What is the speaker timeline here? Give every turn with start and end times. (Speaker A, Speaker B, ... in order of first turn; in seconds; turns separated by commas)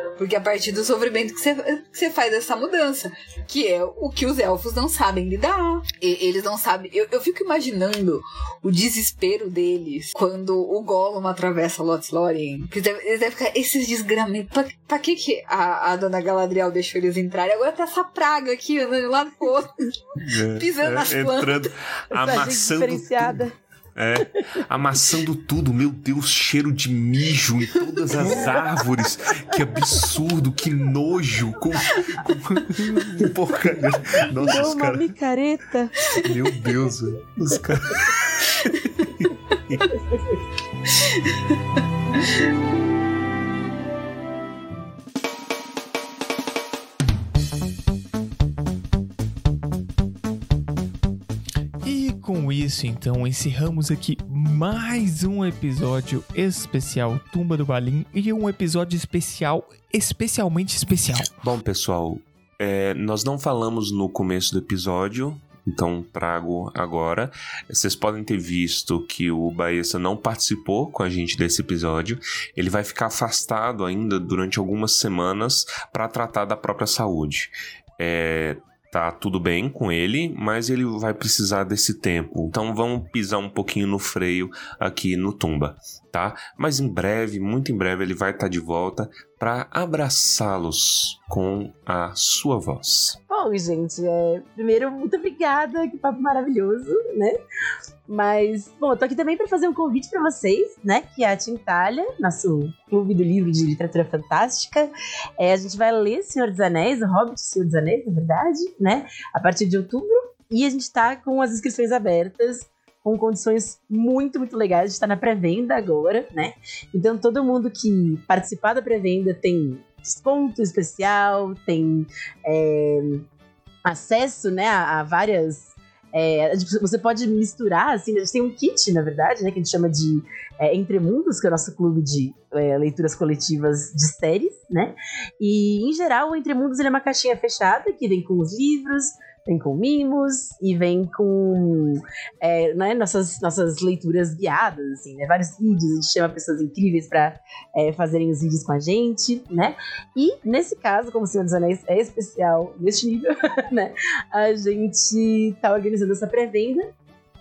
Speaker A: 0.2-21.7, Speaker B: 20.2-35.2, Speaker C: 22.1-23.5, Speaker A: 28.1-28.5, Speaker C: 34.3-36.1, Speaker B: 36.1-39.9, Speaker C: 40.1-40.4, Speaker A: 40.9-41.4, Speaker D: 51.8-61.3, Speaker B: 61.4-93.2, Speaker C: 93.3-97.4, Speaker C: 98.1-123.2, Speaker C: 123.8-156.9